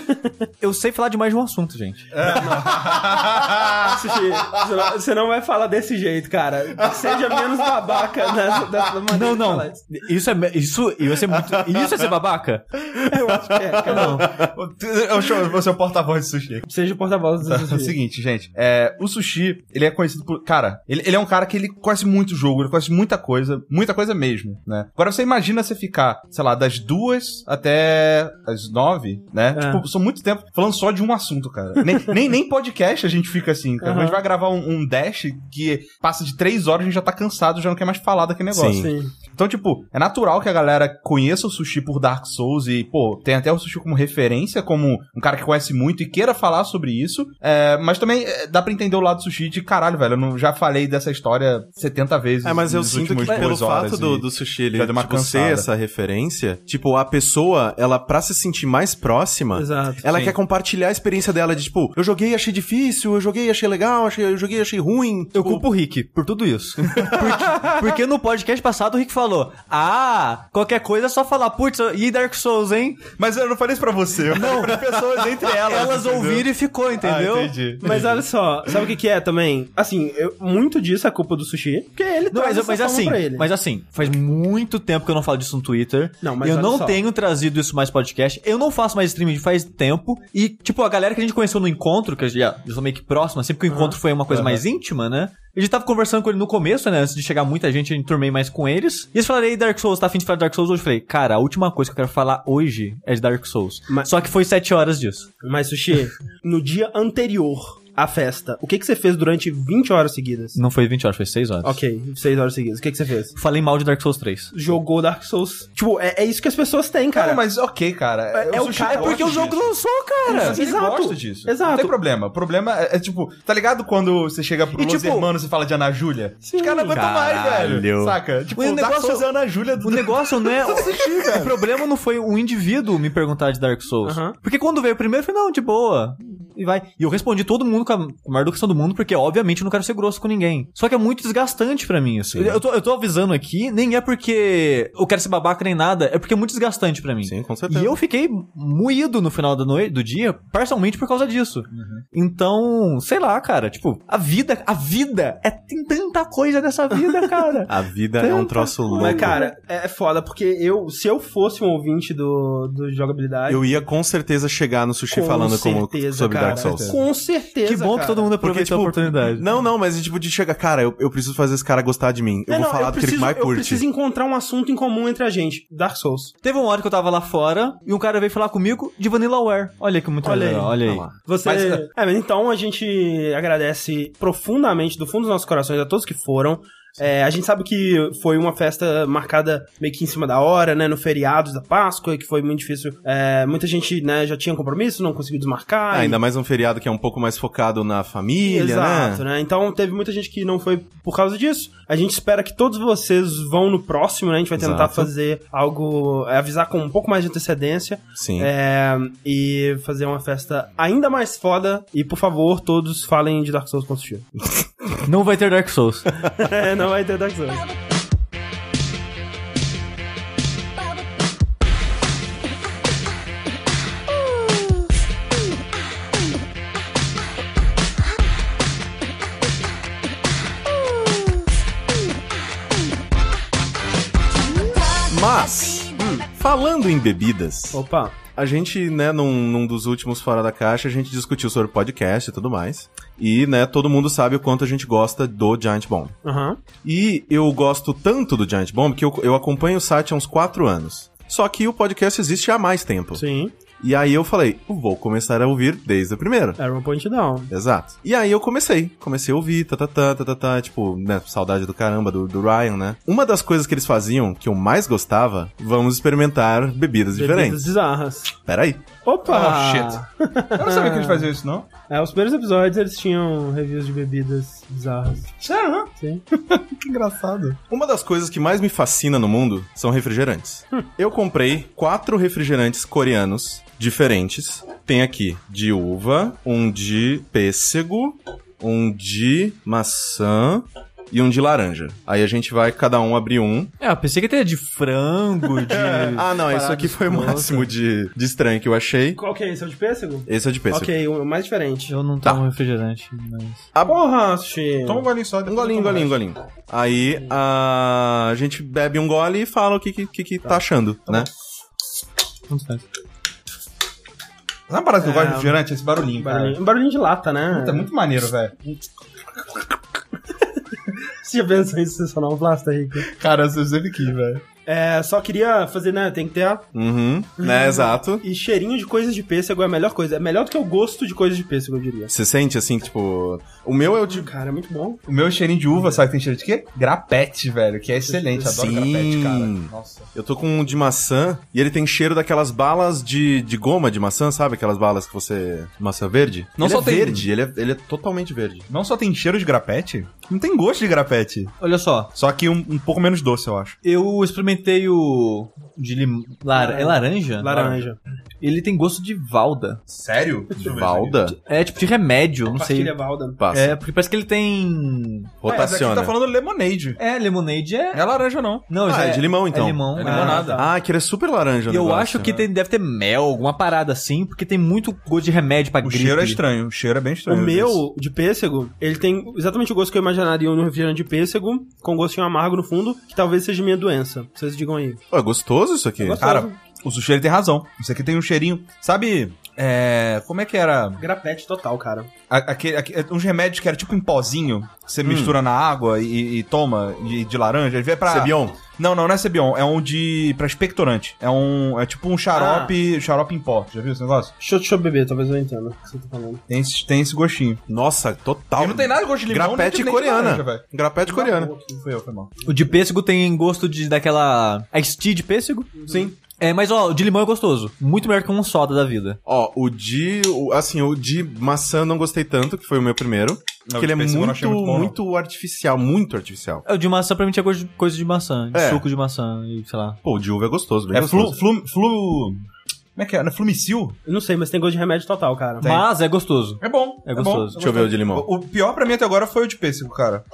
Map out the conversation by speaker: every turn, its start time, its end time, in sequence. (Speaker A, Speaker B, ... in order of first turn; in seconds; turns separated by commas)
Speaker A: 0.6-2.1, Speaker B: 2.1-4.0, Speaker C: 2.3-2.8, Speaker C: 3.8-9.8, Speaker A: 9.1-12.7, Speaker D: 11.3-11.8, Speaker C: 13.0-14.3, Speaker D: 13.1-14.5, Speaker A: 13.8-14.3, Speaker B: 14.4-16.7, Speaker C: 16.7-17.9, Speaker B: 17.4-55.7, Speaker C: 29.5-29.8, Speaker C: 33.8-34.2, Speaker D: 38.5-38.9, Speaker C: 38.7-39.1, Speaker D: 52.4-65.7, Speaker A: 53.2-53.5, Speaker C: 59.5-60.0, Speaker A: 65.3-73.0, Speaker B: 73.2-78.7, Speaker A: 74.3-74.9, Speaker A: 75.6-77.5, Speaker C: 77.8-83.5, Speaker A: 82.3-105.3, Speaker C: 86.2-87.0, Speaker C: 93.7-94.0, Speaker C: 105.4-110.6, Speaker A: 110.5-111.8, Speaker C: 111.6-113.4, Speaker A: 113.3-114.5, Speaker C: 114.5-117.4, Speaker B: 117.1-119.7, Speaker C: 118.3-119.5, Speaker A: 118.7-120.6, Speaker C: 120.3-122.0, Speaker B: 120.3-131.4, Speaker A: 124.7-125.3, Speaker C: 126.5-127.0, Speaker D: 127.0-128.2, Speaker A: 127.0-127.8, Speaker A: 128.6-129.3, Speaker A: 129.8-159.5, Speaker C: 134.0-134.4, Speaker D: 142.3-142.6, Speaker D: 147.2-148.0, Speaker B: 151.7-152.1, Speaker D: 157.7-159.4, Speaker C: 158.9-163.8, Speaker D: 163.5-167.0, Speaker C: 165.1-168.3, Speaker B: 166.5-167.0, Speaker A: 167.6-169.5, Speaker D: 168.4-173.8, Speaker C: 172.5-176.3, Speaker A: 176.4-181.1, Speaker C: 180.2-196.2, Speaker D: 180.8-181.2, Speaker B: 181.4-181.9, Speaker D: 195.9-199.2, Speaker C: 198.4-214.3, Speaker D: 204.6-205.1, Speaker D: 208.2-208.5, Speaker A: 215.0-216.2, Speaker C: 216.3-217.7, Speaker D: 234.9-237.8, Speaker C: 235.9-236.3, Speaker C: 237.7-238.2, Speaker D: 238.4-246.2, Speaker C: 246.2-246.6, Speaker D: 246.8-253.2, Speaker C: 253.2-253.5, Speaker D: 253.8-256.6, Speaker C: 256.6-257.5, Speaker D: 257.5-267.7, Speaker C: 267.1-268.3, Speaker D: 268.5-268.9, Speaker C: 269.1-271.3, Speaker B: 269.2-270.0, Speaker B: 270.6-271.7, Speaker C: 271.9-275.3, Speaker B: 275.4-277.6, Speaker D: 277.7-293.7, Speaker A: 293.8-297.7, Speaker D: 295.7-299.2, Speaker C: 299.2-301.9, Speaker D: 300.3-300.9, Speaker A: 301.9-303.7, Speaker C: 303.9-305.1, Speaker B: 304.8-306.2, Speaker D: 305.5-311.3, Speaker A: 312.5-312.9, Speaker B: 314.7-316.6, Speaker C: 315.0-315.6, Speaker C: 316.2-317.9, Speaker B: 317.5-318.8, Speaker C: 321.2-323.1, Speaker B: 323.0-324.4, Speaker C: 324.7-326.7, Speaker D: 326.7-328.2, Speaker C: 327.4-332.1, Speaker D: 332.1-334.3, Speaker C: 334.1-335.0, Speaker B: 335.1-340.1, Speaker C: 335.7-336.0, Speaker C: 338.1-338.5, Speaker D: 338.4-348.7, Speaker B: 346.6-347.3, Speaker B: 348.7-351.5, Speaker A: 351.6-352.1, Speaker B: 352.1-353.8, Speaker A: 353.8-357.5, Speaker C: 356.5-358.0, Speaker B: 357.4-357.8, Speaker A: 358.4-359.8, Speaker B: 359.9-361.2, Speaker D: 360.6-361.4, Speaker A: 361.5-362.9, Speaker C: 362.6-363.4, Speaker D: 363.4-363.7, Speaker A: 363.5-365.4, Speaker D: 365.4-366.1, Speaker B: 365.5-367.0, Speaker A: 367.0-368.0, Speaker B: 367.9-368.7, Speaker A: 368.7-370.4, Speaker D: 368.8-372.4, Speaker B: 369.9-370.6, Speaker C: 370.0-370.7, Speaker A: 371.7-376.4, Speaker B: 375.8-377.9, Speaker C: 377.3-385.0, Speaker D: 385.1-386.2, Speaker C: 386.0-386.6, Speaker B: 386.2-391.0, Speaker C: 391.0-392.1, Speaker B: 392.3-404.3, Speaker D: 395.0-395.4, Speaker D: 398.1-398.6, Speaker C: 402.3-402.7, Speaker C: 404.4-406.4, Speaker B: 406.5-407.6, Speaker D: 407.7-411.5, Speaker B: 408.6-410.6, Speaker C: 411.1-411.8, Speaker B: 411.8-412.4, Speaker A: 412.4-415.7, Speaker C: 415.8-416.1, Speaker A: 416.4-419.2, Speaker D: 419.3-426.6, Speaker B: 423.7-424.9, Speaker A: 426.7-430.0, Speaker D: 428.5-428.9, Speaker D: 430.0-431.4, Speaker B: 430.9-432.4, Speaker B: 433.0-434.0, Speaker C: 434.1-435.7, Speaker A: 435.6-437.6, Speaker B: 436.6-440.2, Speaker D: 437.6-438.3